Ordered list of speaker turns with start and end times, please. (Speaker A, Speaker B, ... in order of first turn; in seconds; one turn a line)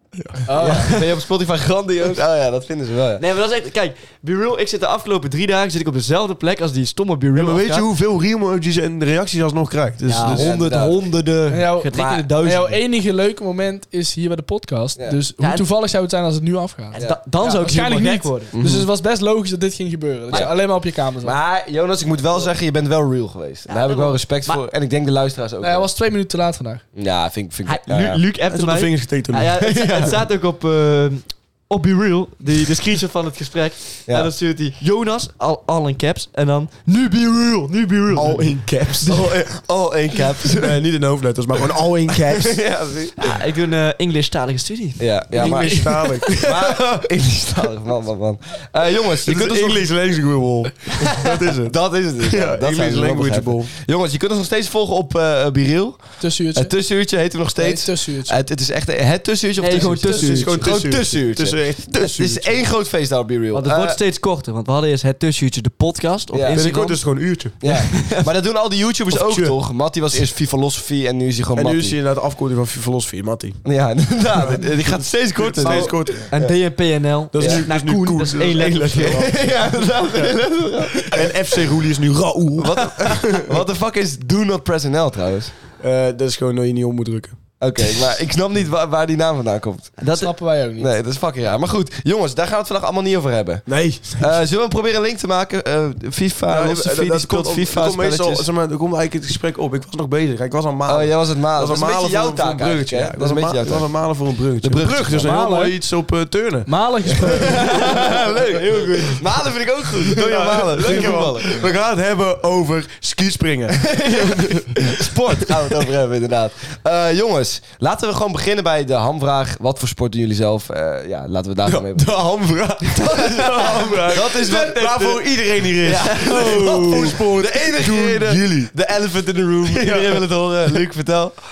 Speaker A: 0.5-0.9
Speaker B: 0.5-1.1
Speaker C: 0.6-3.2
Speaker B: 3.2-7.9
Speaker D: 7.3-10.5
Speaker B: 10.1-12.8
Speaker C: 10.3-11.0
Speaker A: 11.5-21.4
Speaker C: 11.9-12.3
Speaker B: 15.4-15.7
Speaker C: 16.9-17.2
Speaker B: 16.9-18.5
Speaker C: 18.5-18.9
Speaker C: 20.3-25.9
Speaker B: 23.7-24.6
Speaker A: 25.6-26.8
Speaker C: 26.9-28.2
Speaker B: 27.6-39.0
Speaker D: 28.5-29.6
Speaker C: 29.6-30.2
Speaker D: 38.1-39.4
Speaker C: 39.0-40.8
Speaker D: 40.6-42.6
Speaker C: 42.1-43.2
Speaker B: 43.2-45.6
Speaker C: 45.0-49.9
Speaker D: 45.3-46.8
Speaker D: 49.2-53.7
Speaker C: 51.6-64.0
Speaker A: 56.2-56.8
Speaker A: 57.6-58.4
Speaker B: 59.6-60.8
Speaker D: 59.8-62.6
Speaker B: 63.5-67.0
Speaker C: 66.3-66.7
Speaker D: 66.5-67.6
Speaker C: 67.6-72.0
Speaker B: 67.6-68.3
Speaker D: 69.1-69.6
Speaker D: 71.6-73.6
Speaker C: 73.6-76.5
Speaker D: 74.3-76.4
Speaker B: 75.6-79.3
Speaker D: 77.3-80.3
Speaker C: 77.4-77.7
Speaker C: 79.0-81.6
Speaker D: 81.0-83.5
Speaker C: 82.6-85.5
Speaker D: 85.8-87.4
Speaker C: 87.6-90.1
Speaker B: 90.0-90.3
Speaker A: 90.1-90.9
Speaker C: 90.8-98.5
Speaker D: 93.7-94.4
Speaker D: 96.5-108.0
Speaker C: 100.8-103.9
Speaker C: 104.6-105.3
Speaker A: 105.2-105.8
Speaker A: 106.7-107.7
Speaker C: 107.2-111.7
Speaker B: 107.6-109.2
Speaker D: 110.1-115.1
Speaker B: 110.9-111.1
Speaker C: 113.8-122.1
Speaker D: 121.7-128.7
Speaker C: 122.8-131.4
Speaker B: 125.8-127.2
Speaker D: 129.7-130.8